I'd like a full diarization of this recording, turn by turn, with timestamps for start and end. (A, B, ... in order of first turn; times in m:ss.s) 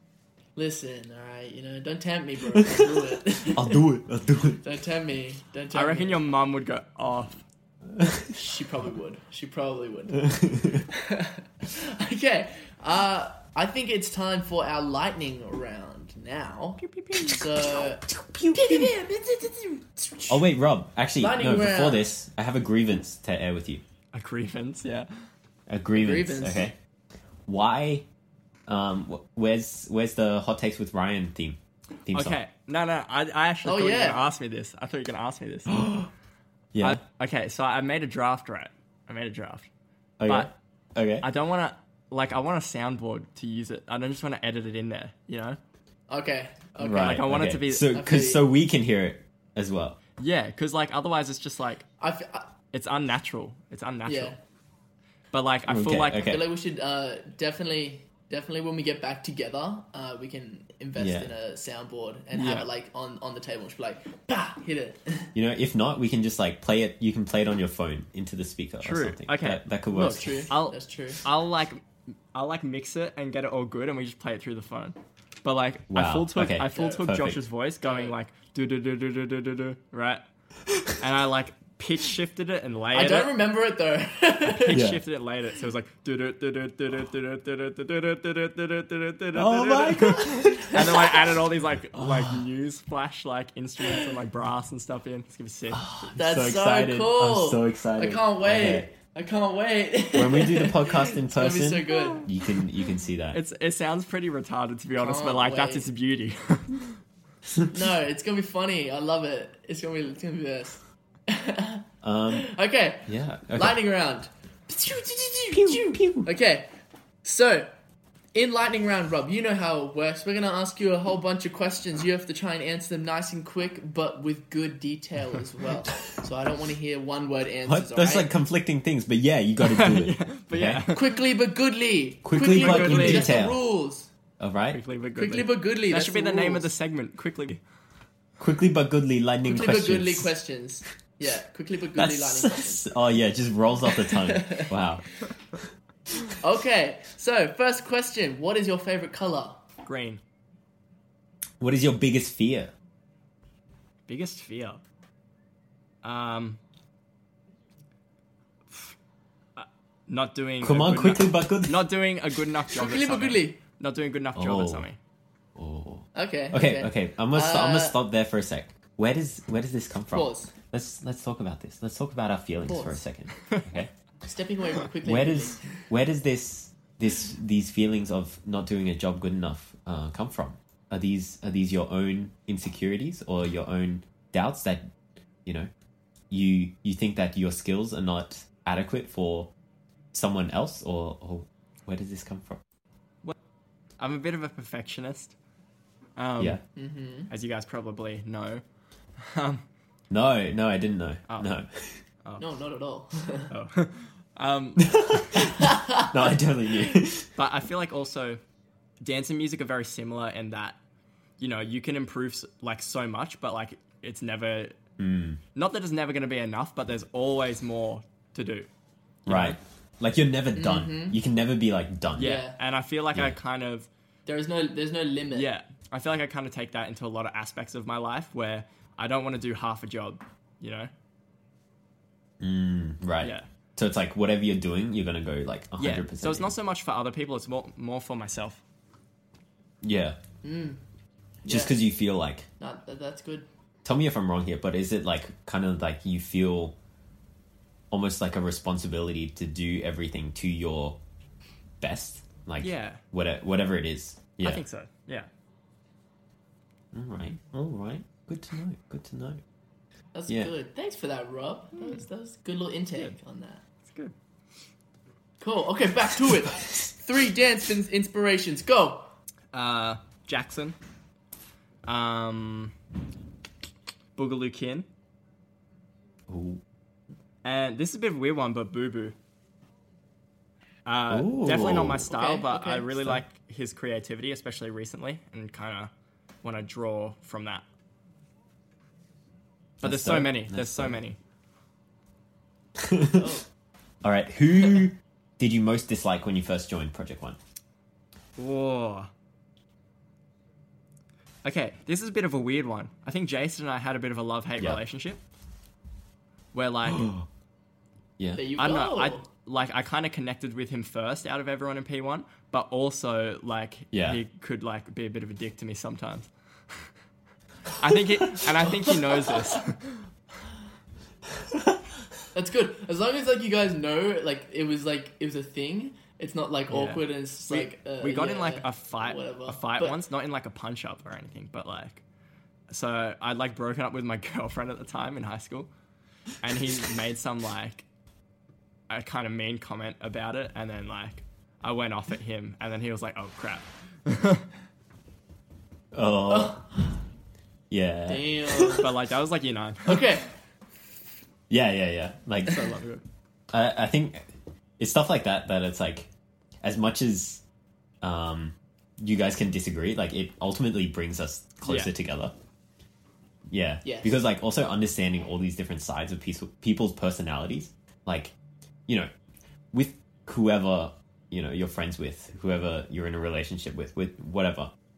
0:00.6-0:03.8 A
0:02.5-0:04.6 B
0:04.6-0:06.2 A
0:05.7-0:07.4 C
0:07.9-0:08.3 B
0:08.3-0:20.4 A
0:10.3-0:10.8 B
0:16.8-0:17.4 C
0:17.2-0:18.9 B
0:20.3-0:23.8 B
0:21.2-0:22.1 A
0:24.1-0:25.1 C
0:25.7-0:26.7 B
0:25.9-0:26.7 A
0:27.4-0:28.0 B
0:28.7-0:32.4 B
0:32.1-0:36.1 C
0:33.6-0:34.2 A
0:36.7-0:37.0 B
0:36.8-0:39.7 C
0:40.2-0:41.2 B
0:41.2-0:45.6 C
0:46.1-0:47.2 A
0:46.8-0:50.0 B
0:46.9-0:47.9 C
0:47.9-0:48.4 A
0:50.2-0:51.8 C
0:52.0-0:52.5 A
0:52.7-0:54.3 C
0:54.0-0:54.4 A
0:55.3-0:56.3 C
0:55.7-0:56.5 B
0:56.2-1:05.3 A
1:01.0-1:01.3 B
1:02.3-1:02.7 C
1:05.3-1:10.5 B
1:08.8-1:09.6 C
1:09.9-1:11.2 A
1:10.5-1:11.8 C
1:12.3-1:20.2 C
1:15.9-1:17.4 B
1:16.7-1:17.0 A
1:17.8-1:18.1 A
1:20.7-1:21.0 B
1:21.0-1:23.3 C
1:22.9-1:24.8 A
1:24.5-1:35.8 C
1:24.7-1:25.0 B
1:29.3-1:31.3 B
1:31.9-1:32.4 B
1:35.7-1:38.9 B
1:36.2-1:42.3 A
1:40.1-1:43.4 B
1:41.9-1:42.2 C
1:43.3-1:47.0 C
1:45.0-1:45.9 A
1:47.7-1:56.7 A
1:52.0-1:52.4 B
1:53.1-1:53.8 B
1:55.5-1:56.3 B
1:57.2-1:57.7 A
1:58.3-2:08.3 A
2:07.6-2:10.8 B
2:09.6-2:11.2 C
2:10.9-2:14.1 A
2:12.2-2:13.6 B
2:12.4-2:13.4 C
2:14.4-2:14.8 B
2:14.7-2:17.6 C
2:15.1-2:16.7 A
2:18.4-2:20.3 B
2:19.4-2:22.9 A
2:21.9-2:25.6 B
2:23.9-2:24.7 A
2:26.4-2:29.6 A
2:29.8-2:30.2 C
2:31.6-2:32.7 B
2:34.1-2:34.8 C
2:36.0-2:36.6 C
2:39.6-2:45.0 C
2:40.6-2:41.9 B
2:42.7-2:43.6 A
2:44.3-2:44.8 B
2:45.6-2:53.9 B
2:46.1-2:48.0 A
2:50.1-2:50.5 A
2:52.7-2:53.0 A
2:54.2-2:55.9 A
2:55.0-3:04.9 B
3:05.4-3:05.7 B
3:06.3-3:09.5 B
3:10.1-3:12.6 B
3:14.0-3:15.3 C
3:16.2-3:16.6 C
3:16.8-3:17.3 A
3:17.3-3:18.6 C
3:19.2-3:19.6 C
3:20.1-3:22.0 B
3:22.4-3:23.5 A
3:23.5-3:25.4 C
3:24.8-3:27.3 B
3:25.5-3:26.1 A
3:27.4-3:28.4 C
3:29.0-3:30.8 C
3:31.4-3:34.8 C
3:35.0-3:35.4 B
3:35.5-3:38.7 C
3:39.2-3:39.6 C
3:39.2-3:42.4 B
3:40.5-3:41.2 A
3:42.2-3:43.9 C
3:42.2-3:42.6 A
3:44.2-3:45.5 A
3:45.3-3:50.9 C
3:52.4-3:56.5 B
3:55.8-3:58.6 C
3:59.8-4:00.2 B
4:00.4-4:00.8 A
4:01.4-4:01.8 A
4:01.4-4:02.5 B
4:02.6-4:03.5 A
4:03.8-4:06.7 B
4:07.9-4:11.0 B
4:11.8-4:14.6 B
4:12.6-4:13.0 C
4:14.4-4:15.3 C
4:16.9-4:19.4 B
4:20.1-4:23.6 A
4:23.9-4:24.1 C
4:25.4-4:29.1 A
4:29.5-4:30.8 C
4:31.8-4:32.7 C
4:34.2-4:34.9 C
4:36.3-4:36.6 B
4:37.4-4:39.1 C
4:40.8-4:45.9 C
4:41.1-4:42.0 B
4:42.1-4:42.9 A
4:46.4-4:47.6 C
4:49.8-4:51.0 B
4:49.8-4:51.2 C
4:52.8-4:53.3 B
4:53.1-4:53.4 A
4:54.0-4:57.4 B
4:58.4-4:59.1 C
5:01.4-5:05.2 C
5:06.5-5:07.2 C
5:06.8-5:07.2 B
5:08.2-5:08.4 B
5:08.3-5:09.2 A
5:08.6-5:16.3 C
5:13.9-5:14.2 B
5:17.8-5:20.0 C
5:22.3-5:30.0 A
5:26.7-5:32.0 C
5:32.7-5:35.7 C
5:36.4-5:37.8 C
5:38.9-5:44.4 C
5:45.9-5:46.6 B
5:46.3-5:46.7 A
5:47.7-5:48.9 B
5:48.1-5:48.9 A
5:48.8-5:50.2 C
5:49.8-5:50.3 A
5:51.5-5:52.7 B
5:52.5-5:53.0 C
5:53.5-5:54.2 B
5:54.8-5:56.1 B
5:56.6-5:57.4 B
5:58.0-6:02.3 B
6:01.6-6:01.9 C
6:03.5-6:08.3 B
6:03.8-6:04.2 A
6:09.7-6:14.7 B